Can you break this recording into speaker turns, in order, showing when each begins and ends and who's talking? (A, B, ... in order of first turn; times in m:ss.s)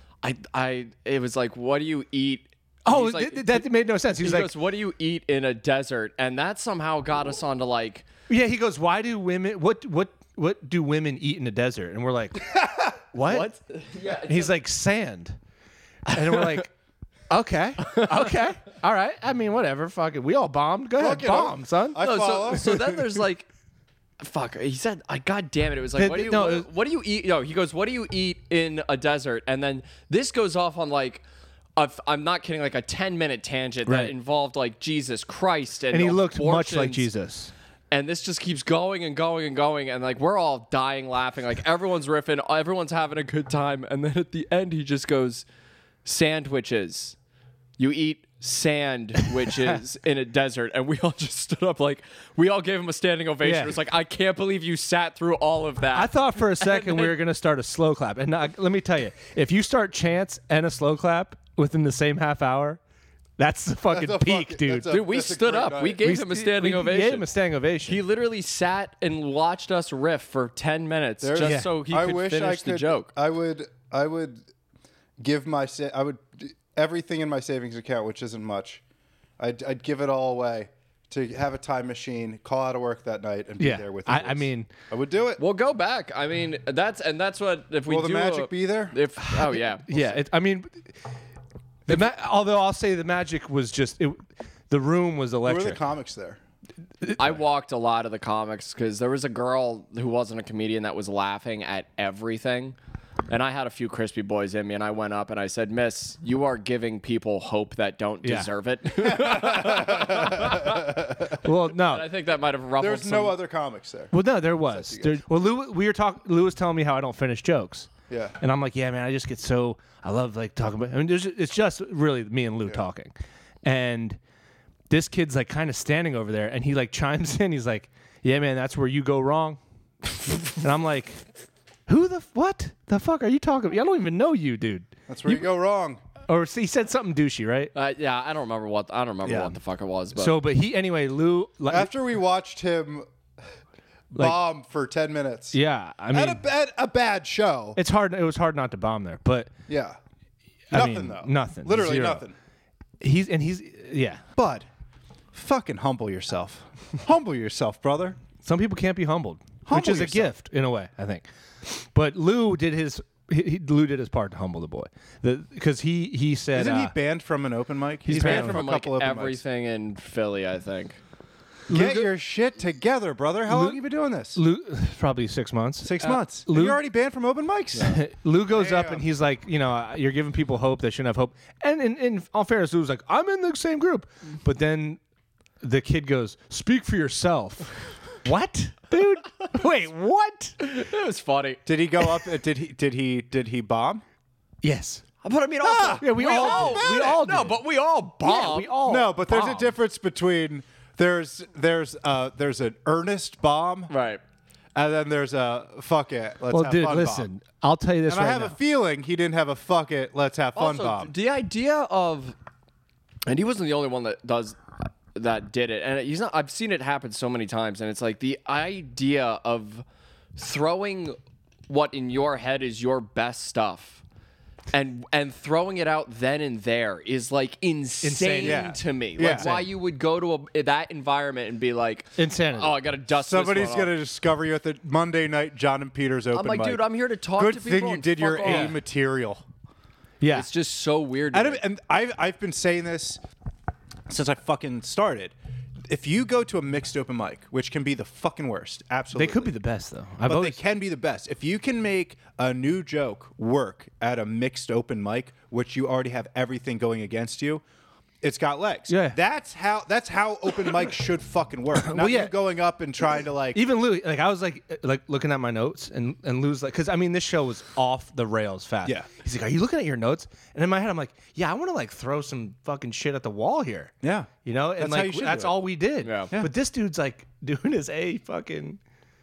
0:00.2-0:08.1 A
0:02.8-0:04.5 B
0:08.3-0:12.4 B
0:12.4-0:13.0 C
0:13.1-0:13.5 B
0:13.2-0:14.6 A
0:14.2-0:15.4 B
0:16.1-0:16.7 B
0:16.3-0:16.6 A
0:17.3-0:22.0 B
0:17.9-0:18.3 A
0:21.0-0:23.0 C
0:22.0-0:23.5 A
0:24.2-0:31.2 A
0:26.0-0:26.7 B
0:31.8-0:37.1 A
0:33.8-0:34.1 B
0:35.9-0:37.5 B
0:37.9-0:45.4 A
0:46.0-0:47.2 A
0:47.8-0:57.2 A
0:53.4-0:53.7 B
0:55.9-1:02.8 B
1:03.4-1:05.0 B
1:03.9-1:06.0 C
1:04.9-1:07.3 A
1:06.0-1:08.0 B
1:07.9-1:13.1 A
1:11.2-1:14.5 C
1:11.4-1:11.7 B
1:15.2-1:18.8 C
1:19.4-1:25.4 C
1:23.6-1:24.7 B
1:25.4-1:29.9 A
1:27.9-1:29.0 C
1:29.2-1:31.0 B
1:31.9-1:35.8 B
1:35.4-1:36.4 C
1:37.2-1:42.8 A
1:43.3-1:53.4 A
1:48.2-1:48.5 B
1:49.0-1:51.3 C
1:51.4-1:52.1 B
1:52.8-1:55.2 C
1:54.1-2:03.1 B
1:58.1-1:58.4 C
2:03.6-2:04.2 B
2:04.9-2:09.6 B
2:10.6-2:11.3 B
2:11.9-2:15.4 B
2:15.1-2:16.0 C
2:16.3-2:17.7 B
2:17.7-2:20.4 A
2:19.2-2:19.6 C
2:20.2-2:21.9 B
2:21.7-2:23.1 C
2:24.1-2:25.6 C
2:25.5-2:26.4 B
2:26.1-2:27.8 C
2:27.7-2:29.5 B
2:29.7-2:30.0 C
2:30.7-2:32.2 B
2:30.7-2:32.3 C
2:33.0-2:34.2 B
2:34.4-2:34.7 C
2:35.3-2:38.2 C
2:38.4-2:46.9 B
2:39.6-2:40.3 C
2:46.5-2:49.4 C
2:48.1-2:48.6 B
2:48.1-2:51.0 A
2:51.7-2:52.1 B
2:51.7-2:54.4 C
2:53.5-2:53.8 B
2:54.3-2:56.8 B
2:55.8-2:58.0 C
2:57.8-3:05.0 B
2:58.5-2:59.0 C
3:05.6-3:10.6 B
3:10.6-3:12.3 A
3:11.6-3:14.0 C
3:14.6-3:15.0 B
3:15.2-3:19.7 A
3:15.6-3:17.2 C
3:16.0-3:17.6 B
3:18.2-3:19.2 B
3:18.8-3:23.9 C
3:23.9-3:24.2 A
3:24.7-3:27.3 C
3:26.5-3:28.6 B
3:28.0-3:31.1 C
3:30.6-3:32.4 A
3:33.2-3:39.8 A
3:40.4-3:41.2 A
3:41.7-3:44.0 A
3:44.7-3:53.9 A
3:48.0-3:48.7 B
3:48.4-3:49.5 C
3:49.3-3:49.7 B
3:52.2-3:52.8 B
3:53.2-3:56.8 C
3:56.3-3:58.8 A
3:57.4-3:59.4 C
3:58.4-3:58.8 B
4:00.2-4:00.5 B
4:00.3-4:01.6 A
4:01.3-4:03.2 C
4:04.1-4:05.3 C
4:05.9-4:09.5 C
4:09.2-4:10.6 B
4:10.2-4:17.6 C
4:18.2-4:23.6 C
4:18.9-4:19.2 B
4:21.8-4:22.3 B
4:23.5-4:33.9 B
4:34.0-4:35.6 C
4:34.4-4:38.8 B
4:36.0-4:36.3 A